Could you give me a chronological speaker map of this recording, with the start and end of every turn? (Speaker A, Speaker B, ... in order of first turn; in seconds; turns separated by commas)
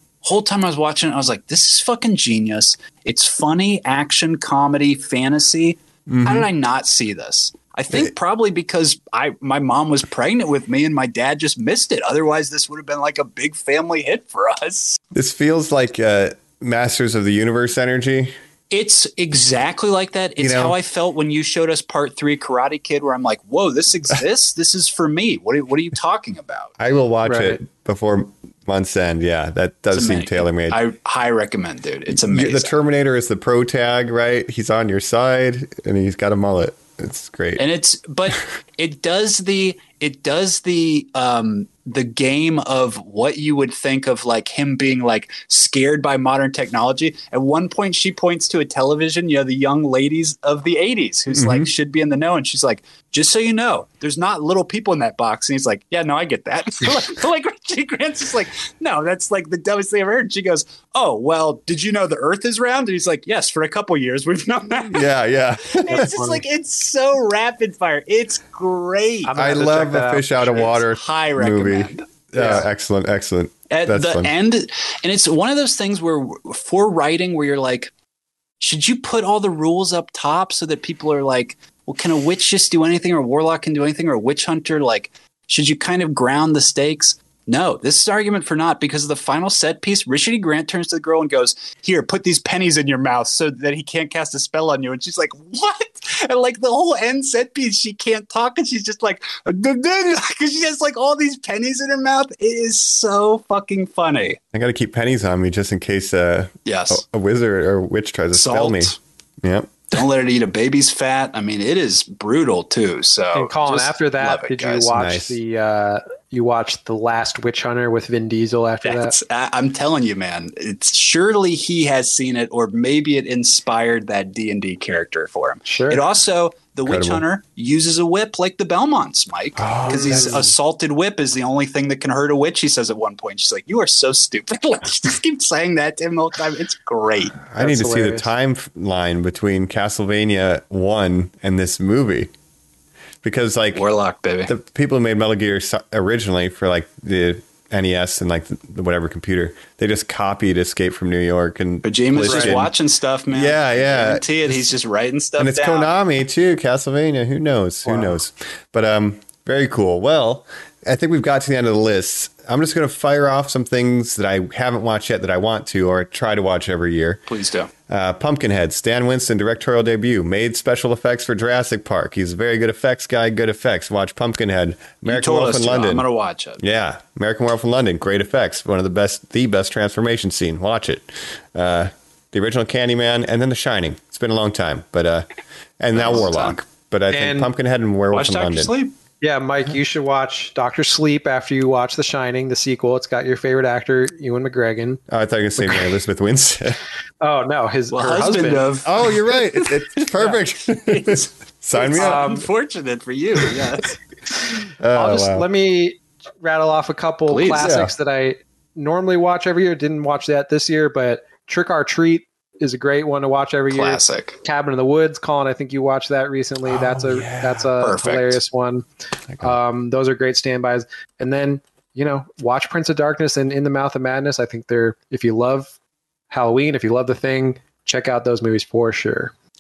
Speaker A: 0.2-15.0, Speaker B: 6.1-6.5, Speaker B: 15.1-18.3, Speaker A: 18.7-26.7, Speaker B: 20.4-20.8, Speaker B: 26.8-30.8, Speaker C: 27.2-27.6, Speaker A: 29.9-32.8, Speaker B: 32.1-37.6, Speaker A: 37.6-65.1, Speaker B: 51.3-51.7, Speaker B: 64.8-66.1, Speaker A: 65.7-69.3, Speaker C: 65.9-66.4, Speaker C: 69.2-70.7, Speaker B: 69.4-74.3, Speaker A: 70.6-72.0, Speaker C: 72.3-72.7, Speaker A: 73.7-77.9, Speaker A: 78.6-104.4, Speaker B: 104.5-109.8, Speaker A: 106.7-107.0, Speaker A: 108.3-109.0, Speaker A: 109.9-114.9, Speaker C: 113.3-119.2, Speaker B: 114.9-115.4, Speaker A: 118.8-137.4, Speaker C: 125.7-126.0, Speaker B: 126.8-127.2, Speaker B: 129.6-130.5, Speaker C: 129.9-130.5, Speaker B: 137.5-142.3, Speaker C: 137.6-138.3, Speaker B: 143.2-143.8, Speaker A: 143.7-144.5, Speaker B: 144.5-152.7, Speaker A: 151.8-155.9, Speaker C: 152.2-152.6, Speaker B: 153.3-154.7, Speaker B: 155.4-167.2, Speaker C: 157.8-158.2, Speaker A: 167.3-167.7, Speaker B: 167.9-176.0, Speaker A: 175.0-176.6, Speaker B: 176.6-185.3, Speaker B: 185.8-188.7, Speaker A: 185.9-186.6, Speaker C: 187.1-187.5, Speaker A: 188.1-188.9, Speaker C: 189.2-195.0, Speaker B: 195.1-196.8, Speaker C: 195.6-195.9, Speaker C: 197.2-198.7, Speaker A: 197.9-204.0, Speaker B: 198.8-202.2, Speaker C: 201.9-202.5, Speaker B: 204.8-205.4, Speaker C: 204.9-218.8, Speaker A: 207.3-207.8, Speaker B: 207.6-207.9, Speaker A: 213.7-214.4, Speaker B: 216.6-217.7, Speaker A: 217.8-218.4, Speaker C: 219.4-225.7, Speaker C: 226.3-229.3